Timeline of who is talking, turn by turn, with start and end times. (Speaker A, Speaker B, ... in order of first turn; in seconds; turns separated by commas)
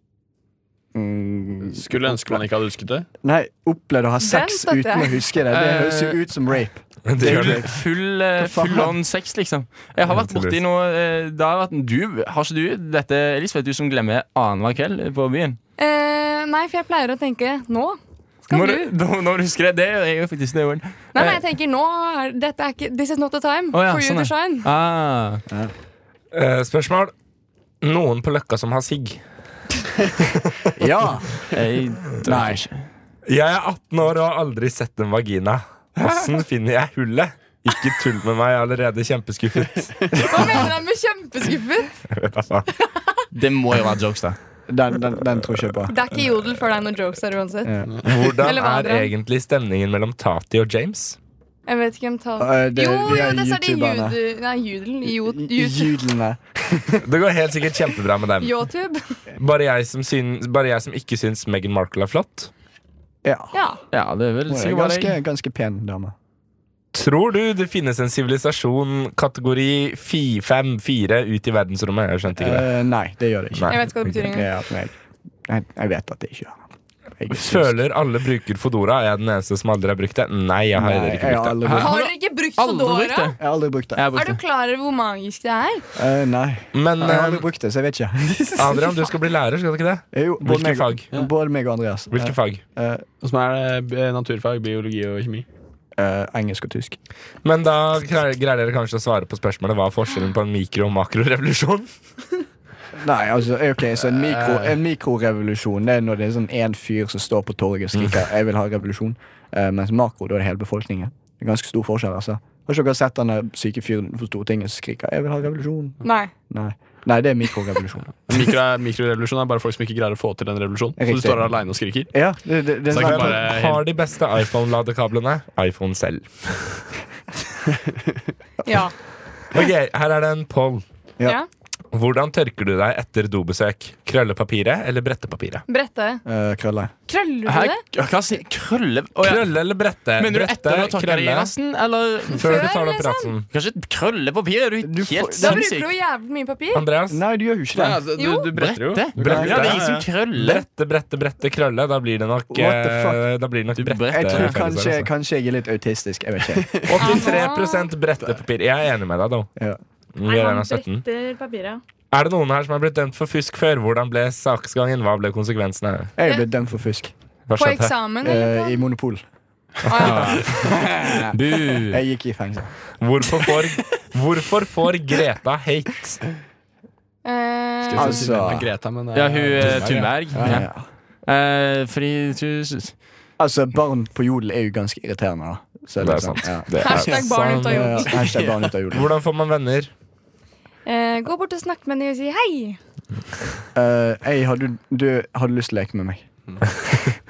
Speaker A: 0.9-2.4, Speaker B: 1.6-3.0, Speaker A: 3.2-7.8, Speaker C: 4.2-5.2, Speaker D: 5.5-6.2, Speaker E: 7.0-7.6, Speaker D: 7.2-15.6, Speaker A: 8.3-8.9, Speaker E: 10.1-10.6, Speaker C: 15.8-18.9, Speaker D: 18.5-21.4, Speaker C: 21.1-24.7, Speaker D: 23.7-25.4, Speaker E: 26.3-27.1, Speaker E: 27.8-29.2, Speaker E: 30.3-30.6, Speaker A: 30.7-31.4, Speaker D: 31.5-32.9, Speaker A: 32.2-32.6, Speaker E: 33.3-40.7, Speaker C: 40.2-42.0, Speaker E: 42.1-42.7, Speaker D: 43.3-44.4, Speaker A: 44.7-45.9, Speaker C: 45.9-47.7, Speaker A: 47.6-47.9, Speaker E: 48.0-51.2, Speaker C: 48.2-49.1, Speaker C: 51.7-56.0, Speaker A: 52.4-54.2, Speaker A: 55.1-57.0, Speaker E: 57.0-58.6, Speaker C: 58.4-59.0, Speaker E: 59.4-62.5, Speaker A: 63.2-63.5, Speaker C: 63.5-63.8, Speaker D: 63.9-65.2, Speaker A: 64.5-66.1, Speaker E: 66.9-72.7, Speaker A: 72.3-76.6, Speaker E: 73.5-74.2, Speaker C: 73.7-74.5, Speaker A: 77.2-77.8, Speaker E: 77.3-81.7, Speaker A: 80.7-81.9, Speaker D: 81.6-83.4, Speaker C: 81.8-83.3, Speaker A: 83.4-84.0, Speaker D: 83.9-84.4, Speaker C: 84.1-85.8, Speaker A: 86.0-89.0, Speaker E: 86.7-87.5, Speaker E: 88.5-91.0, Speaker A: 90.1-93.0, Speaker E: 92.1-92.6, Speaker B: 93.2-95.5, Speaker A: 96.0-97.0, Speaker E: 97.4-101.9, Speaker A: 102.9-118.1, Speaker B: 104.2-104.7, Speaker E: 107.9-108.2, Speaker C: 116.0-116.3, Speaker B: 118.3-122.1, Speaker A: 121.0-121.5, Speaker A: 122.1-123.4, Speaker B: 122.9-123.8, Speaker E: 122.9-126.8, Speaker C: 128.7-128.9, Speaker E: 129.5-130.8, Speaker E: 131.9-135.6, Speaker C: 135.7-136.2, Speaker A: 136.2-136.9, Speaker C: 137.1-137.8, Speaker D: 137.4-139.5, Speaker E: 139.2-141.5, Speaker D: 140.2-142.6, Speaker E: 142.3-143.5, Speaker C: 142.4-143.3, Speaker D: 143.5-145.9, Speaker A: 144.8-145.7, Speaker C: 145.4-146.8, Speaker E: 146.7-147.2, Speaker A: 147.1-148.0, Speaker B: 147.7-150.1, Speaker C: 148.2-148.5, Speaker D: 148.5-150.6, Speaker E: 149.2-155.1, Speaker A: 149.2-149.5, Speaker A: 152.5-153.2, Speaker D: 153.8-154.6, Speaker A: 154.1-156.7, Speaker E: 156.8-159.5, Speaker C: 157.0-157.9, Speaker E: 160.1-161.0, Speaker C: 160.2-161.8, Speaker E: 162.1-166.1, Speaker A: 166.2-167.1, Speaker E: 167.5-167.9, Speaker C: 167.6-168.9, Speaker A: 168.2-169.2, Speaker C: 169.8-170.4, Speaker E: 169.9-170.4, Speaker D: 170.0-170.6, Speaker A: 170.1-172.7, Speaker D: 171.3-172.0, Speaker E: 173.0-176.2, Speaker C: 177.2-178.4, Speaker B: 177.8-180.6, Speaker A: 177.9-178.7, Speaker D: 179.1-180.7, Speaker A: 180.3-180.9, Speaker D: 181.3-182.9, Speaker A: 183.4-189.1, Speaker E: 186.0-188.2, Speaker C: 186.8-188.2, Speaker E: 188.9-189.9, Speaker C: 190.8-192.8, Speaker A: 193.7-196.2